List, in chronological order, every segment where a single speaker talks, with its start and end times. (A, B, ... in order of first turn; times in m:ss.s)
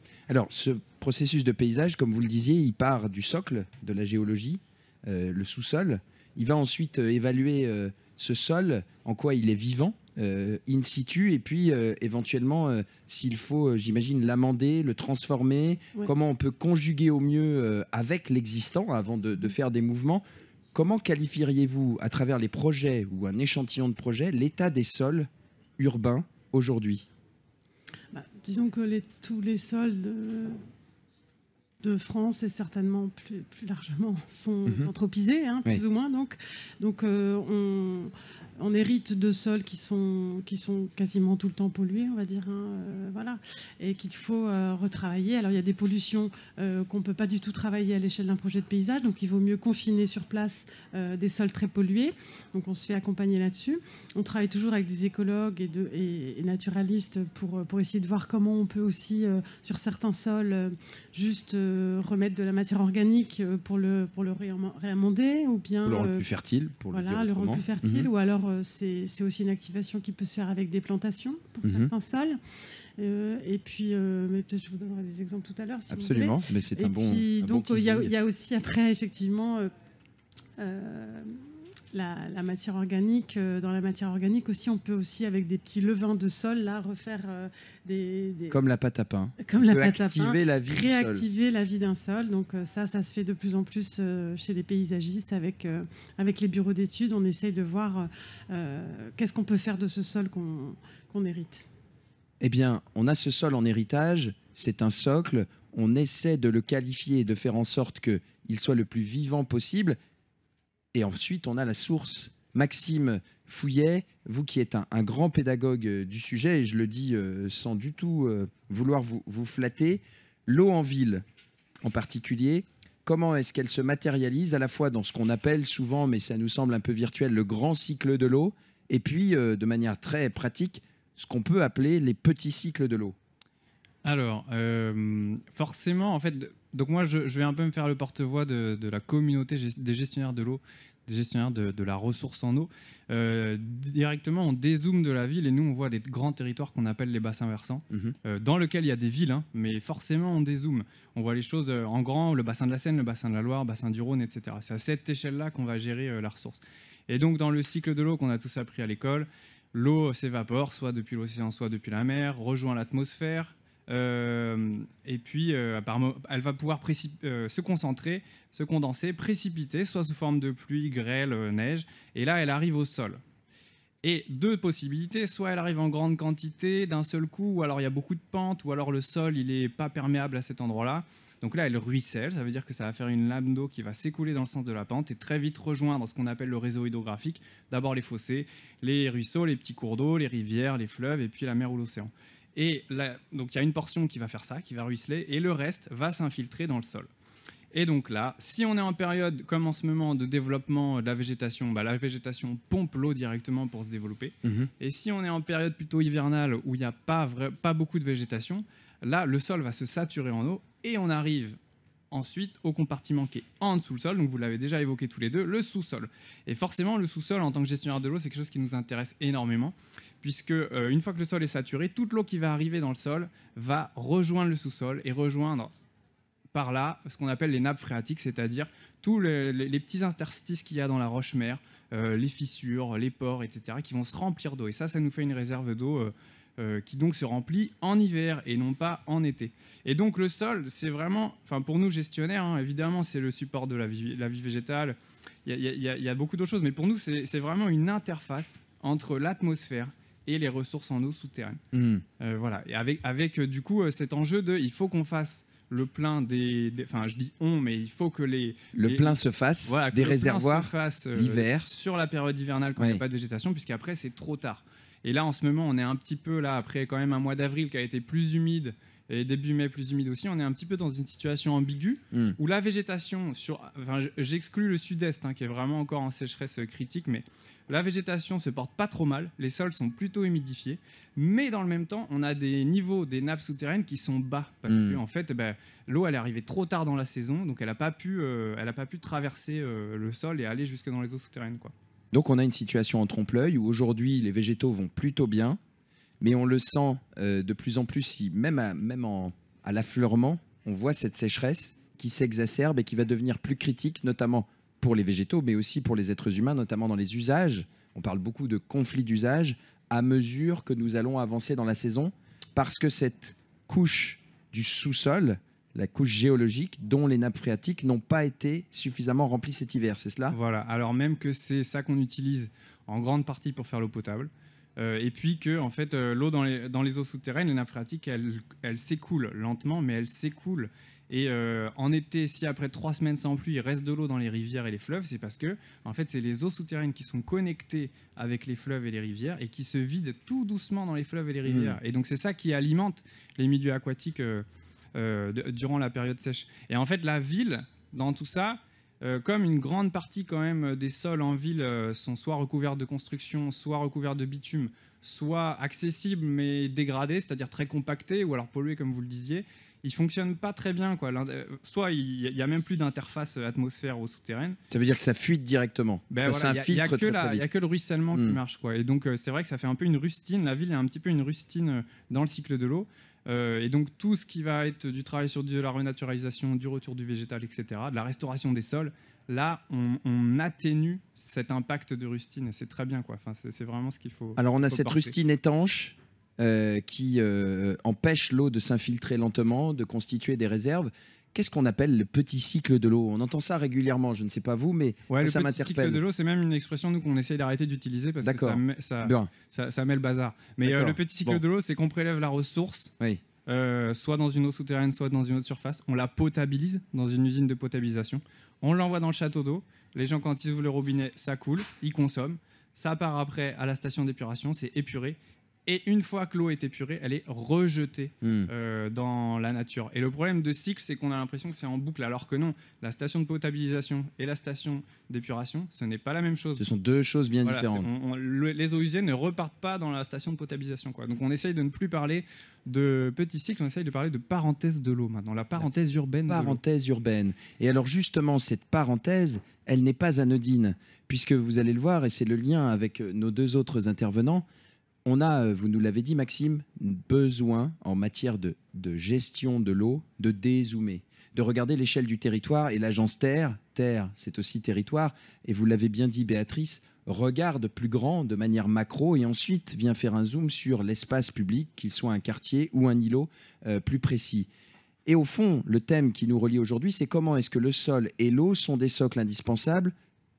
0:00.3-0:20.2 A
0:20.7-0:27.1 A
0:28.1-0:30.6 B
0:31.8-1:06.2 B
1:05.8-1:08.1 A
1:06.9-1:12.4 B
1:11.6-1:11.9 A
1:13.0-1:19.7 B
1:15.9-1:18.1 A
1:20.6-1:21.4 B
1:21.9-1:28.6 B
1:28.5-1:31.3 A
1:29.4-1:41.7 B
1:42.4-1:50.0 A
1:50.9-2:01.2 A
2:01.8-2:13.2 A
2:14.0-2:53.2 C
2:54.0-3:17.1 C
3:17.7-3:31.6 C
3:24.4-3:24.7 A
3:32.1-3:45.7 C
3:46.5-4:11.6 C
4:11.7-4:12.0 A
4:12.2-4:51.7 C
4:18.8-4:21.7 A
4:22.8-4:23.0 A
4:32.1-4:32.4 A
4:44.7-4:45.0 A
4:52.1-4:55.6 A
4:56.2-5:20.4 A
5:20.3-6:04.6 C
5:41.4-5:41.8 A
6:04.7-6:07.4 A
6:06.1-6:25.1 C
6:08.1-6:08.4 A
6:24.4-6:36.0 A
6:35.1-6:42.9 C
6:38.2-6:39.3 A
6:40.6-6:41.4 A
6:43.5-7:06.6 C
6:58.2-6:58.5 A
7:06.6-7:07.9 A
7:07.4-7:16.6 C
7:16.3-7:24.5 A
7:25.0-7:44.5 A
7:45.1-7:50.0 A